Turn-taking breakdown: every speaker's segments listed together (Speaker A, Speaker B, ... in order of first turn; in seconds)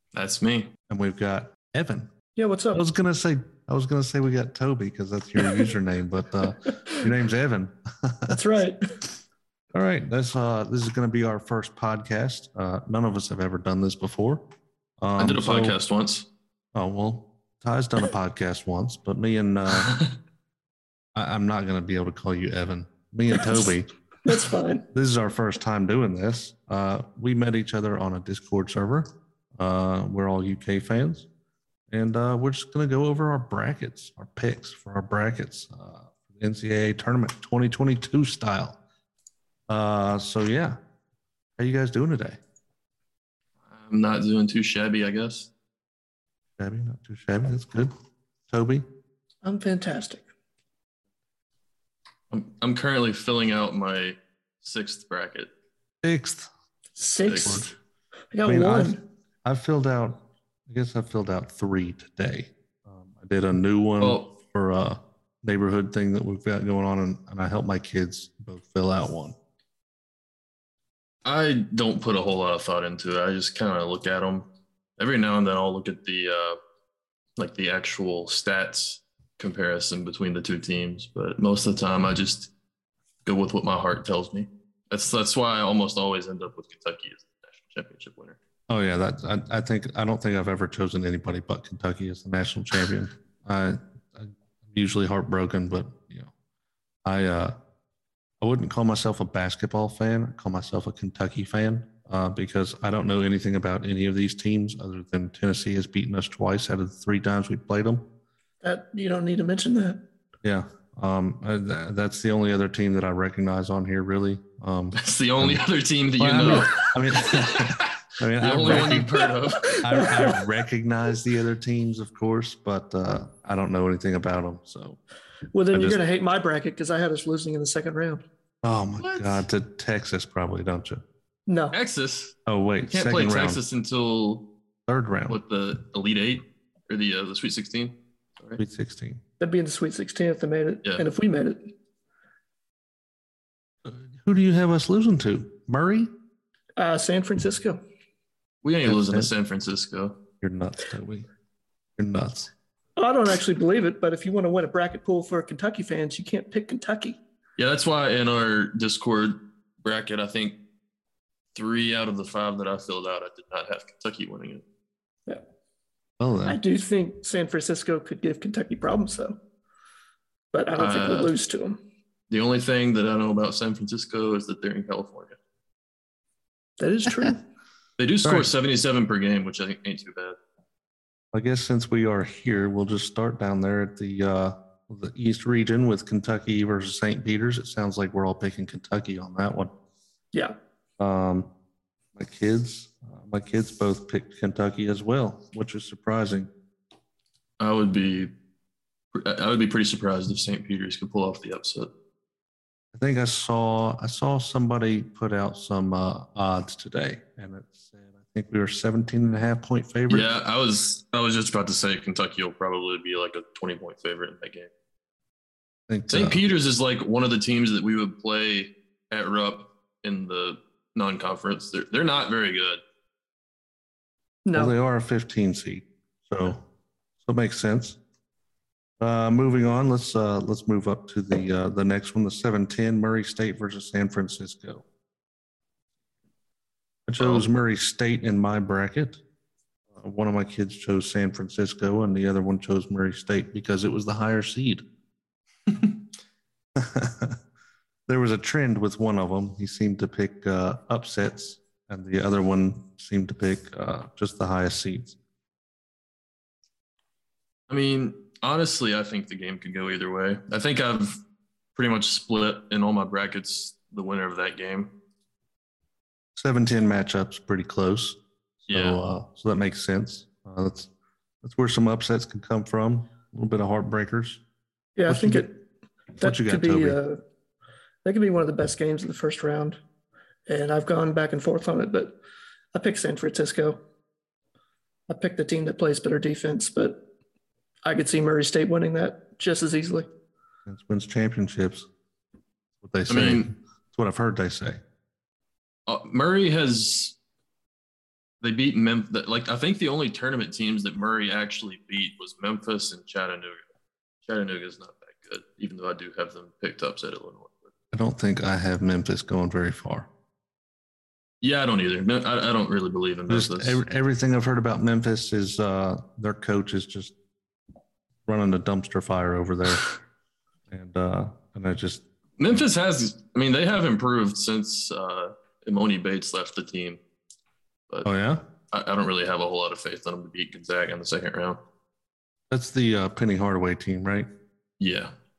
Speaker A: 0.1-0.7, 15.2-16.3, 19.8-20.1, 43.7-45.5, 52.3-55.5, 57.3-57.7, 64.0-64.3, 71.2-76.6, 77.4-82.5, 83.2-88.4, 115.0-120.1, 129.0-129.4, 131.7-132.3, 132.9-134.5, 135.3-138.6, 148.6-150.2, 157.6-160.6, 161.6-164.6, 170.8-171.3, 172.3-175.4, 178.0-180.4, 197.6-198.3, 199.1-201.9, 210.1-214.7, 216.1-222.8, 237.2-237.5, 245.7-245.9, 257.7-261.2, 261.8-264.9, 268.7-269.0, 293.1-293.5, 295.9-297.1, 298.4-303.6, 304.2-307.7, 311.4-313.8, 322.4-327.0, 328.7-331.6, 334.8-335.1
Speaker B: 0.9-2.1, 2.7-8.4, 9.7-14.4, 15.0-15.8, 16.8-20.0, 21.1-23.9, 24.9-31.3, 31.9-38.8, 39.7-40.8, 41.6-42.4, 46.6-47.9, 48.5-48.9, 56.0-56.5, 58.5-69.4, 88.7-96.3, 97.0-97.6, 98.4-108.0, 110.4-115.6, 116.2-119.2, 119.7-125.0, 125.7-126.0, 128.6-131.0, 132.5-133.6, 134.9-135.4, 138.6-139.2, 143.8-146.1, 148.8-149.3, 150.4-151.3, 152.0-152.5, 166.2-166.6, 178.2-178.5, 181.3-189.7, 191.0-191.5, 192.2-196.5, 202.9-210.3, 215.9-216.4, 224.5-226.6, 227.2-228.0, 229.0-234.8, 237.1-239.2, 239.9-244.8, 246.8-247.4, 248.1-255.2, 266.4-270.9, 271.4-274.4, 275.1-275.5, 276.2-277.0, 290.7-291.9, 292.8-294.8, 307.9-310.1, 313.3-317.1, 318.3-319.9, 320.7-322.0, 328.1-328.4, 332.5-334.3
Speaker C: 2.4-2.8, 6.7-7.0, 8.3-8.8, 23.4-23.7, 24.3-24.8, 49.4-50.2, 57.0-57.7, 58.3-59.0, 108.6-110.0, 119.2-120.4, 125.5-128.2, 131.5-131.8, 139.4-141.7, 146.8-147.8, 153.0-157.2, 166.4-169.4, 170.5-171.8, 176.8-177.4, 224.4-224.8, 275.0-275.5, 276.2-277.2, 278.1-279.8, 280.5-282.1, 282.7-283.8, 285.1-287.0, 287.9-290.1